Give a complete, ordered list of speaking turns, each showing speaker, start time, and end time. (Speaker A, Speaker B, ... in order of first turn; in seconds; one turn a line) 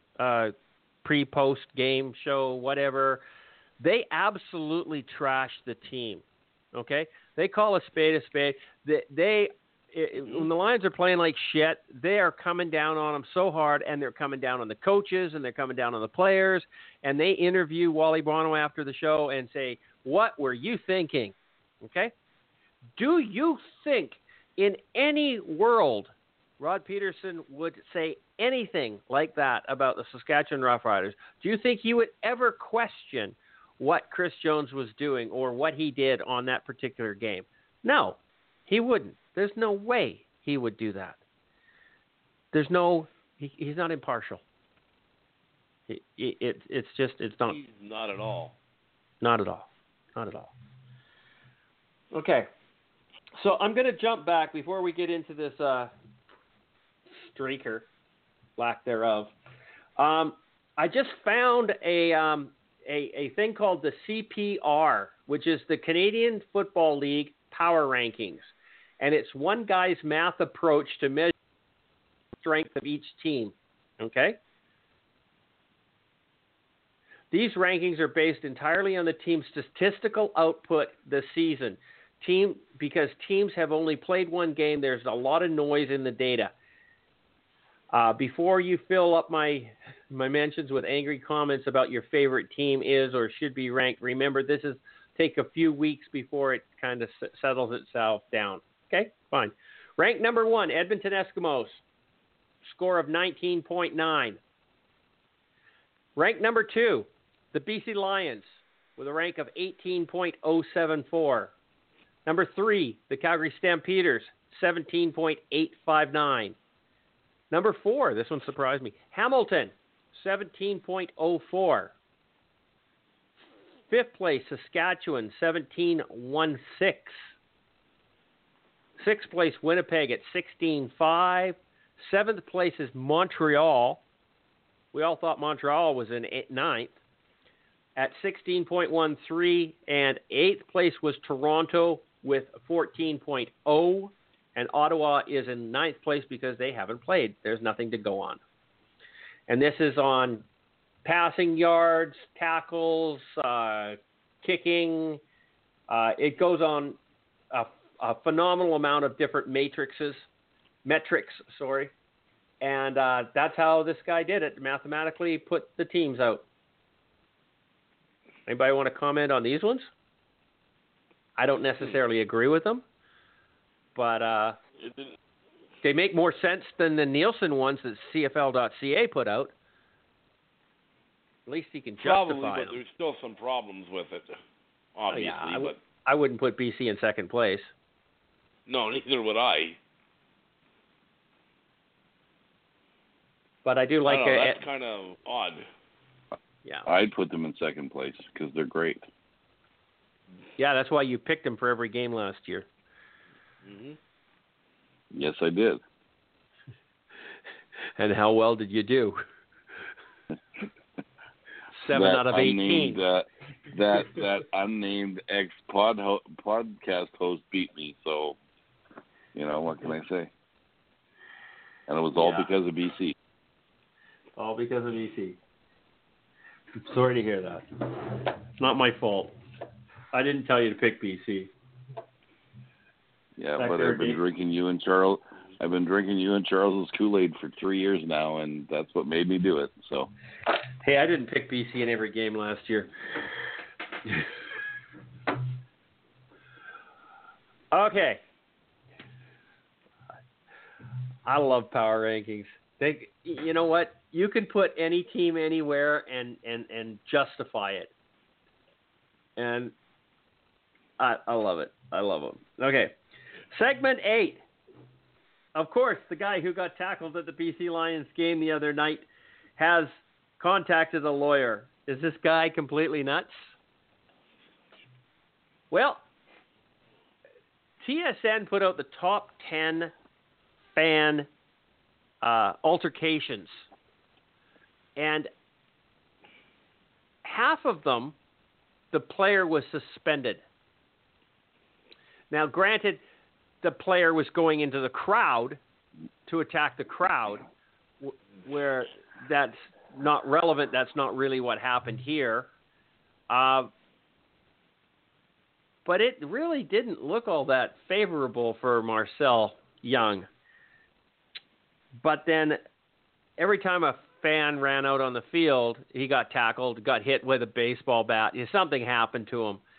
Speaker A: 0.2-3.2
Speaker A: 3.8-22.1
Speaker A: 23.0-41.2
Speaker A: 42.5-44.4
Speaker A: 45.9-47.6
Speaker B: 47.5-48.6
Speaker A: 49.2-50.5
Speaker A: 52.1-52.5
Speaker A: 53.4-55.9
Speaker A: 57.2-57.9
Speaker A: 58.6-59.3
Speaker A: 60.0-68.5
Speaker A: 69.0-71.3
Speaker A: 72.4-74.4
Speaker A: 77.3-86.5
Speaker A: 87.9-101.8
Speaker A: 102.7-104.4
Speaker A: 106.2-111.5
Speaker A: 112.3-116.6
Speaker A: 117.5-122.0
Speaker A: 123.9-127.2
Speaker A: 129.0-134.0
Speaker A: 134.9-136.9
Speaker A: 138.0-148.4
Speaker A: 149.5-150.4
Speaker A: 151.0-155.2
Speaker A: 155.9-157.0
Speaker A: 157.5-160.3
Speaker A: 160.8-161.9
Speaker A: 162.6-166.4
Speaker A: 168.5-169.9
Speaker A: 171.4-172.8
Speaker A: 173.9-174.6
Speaker B: 174.8-175.1
Speaker A: 175.8-179.5
Speaker A: 181.5-182.8
Speaker B: 182.0-184.4
Speaker B: 185.0-185.8
Speaker A: 185.1-187.7
Speaker B: 188.7-189.8
Speaker A: 193.7-194.6
Speaker B: 194.1-195.7
Speaker C: 196.9-199.0
Speaker A: 200.6-202.7
Speaker B: 203.7-204.0
Speaker C: 205.1-205.8
Speaker A: 208.0-209.2
Speaker A: 211.7-213.0
Speaker C: 211.9-218.4
Speaker C: 219.3-220.3
Speaker C: 221.9-223.2
Speaker A: 222.2-222.5
Speaker A: 224.4-225.4
Speaker A: 226.8-229.4
Speaker A: 230.1-231.5
Speaker C: 233.4-240.1
Speaker A: 233.6-234.2
Speaker A: 240.8-242.9
Speaker A: 247.7-248.2
Speaker A: 251.3-257.9
Speaker A: 259.4-259.7
Speaker A: 261.0-263.0
Speaker A: 263.5-264.4
Speaker A: 265.6-269.1
Speaker A: 269.6-273.3
Speaker A: 275.7-276.0
Speaker A: 277.8-279.9
Speaker A: 280.8-281.3
Speaker A: 282.2-283.6
Speaker A: 285.0-285.3
Speaker A: 287.2-288.2
Speaker A: 288.9-290.4
Speaker A: 292.3-293.0
Speaker A: 293.6-295.6
Speaker A: 296.3-297.5
Speaker A: 298.0-302.5
Speaker A: 303.3-303.7
Speaker A: 305.9-310.3
Speaker A: 312.0-312.6
Speaker A: 313.4-319.6